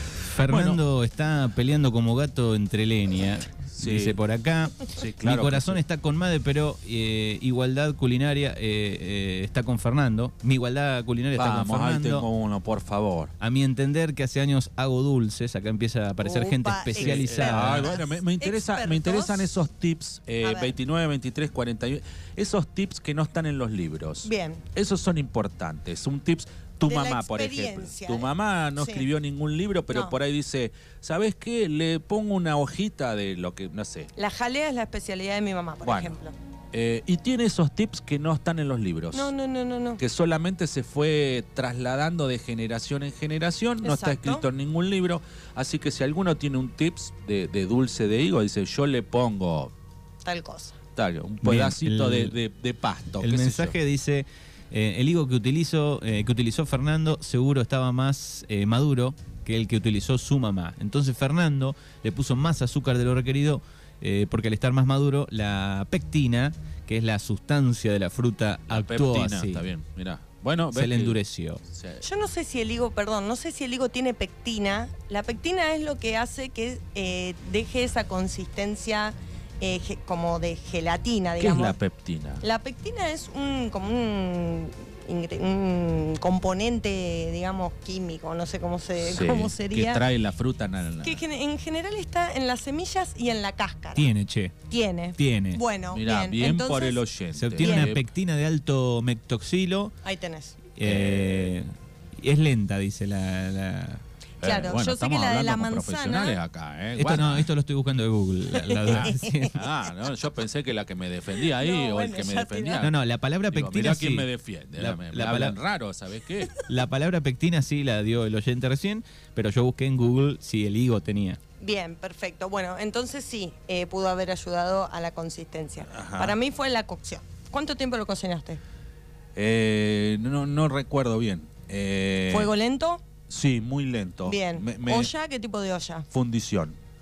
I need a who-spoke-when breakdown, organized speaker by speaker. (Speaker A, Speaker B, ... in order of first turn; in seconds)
Speaker A: 0.3-12.2, 13.4-17.9, 51.4-52.4, 53.2-69.7, 70.7-71.6, 94.0-94.5, 95.2-95.6, 97.3-99.9, 100.8-104.0, 107.0-109.6, 112.8-115.5, 116.7-121.4
Speaker B: 0.4-0.8, 3.7-4.2, 4.9-5.8, 11.3-13.3, 16.9-34.1, 35.8-36.2, 36.7-39.3, 40.0-49.7, 51.0-53.7, 68.7-72.0, 81.4-82.4, 89.0-91.2, 95.9-98.0, 100.8-101.5, 104.4-107.5, 108.9-112.9, 113.5-116.5, 125.9-126.3, 129.3-132.5, 133.3-135.1, 136.1-136.8
Speaker C: 16.2-19.5, 20.4-20.7, 24.2-24.6, 26.9-29.0, 34.1-36.3, 39.1-40.0, 43.8-44.4, 50.2-50.8, 72.0-81.8, 82.4-90.0, 91.0-94.1, 94.7-97.0, 97.6-97.9, 100.0-100.6, 104.4-106.4, 108.5-109.5, 111.4-112.9, 121.6-128.6, 132.3-133.0, 134.2-136.1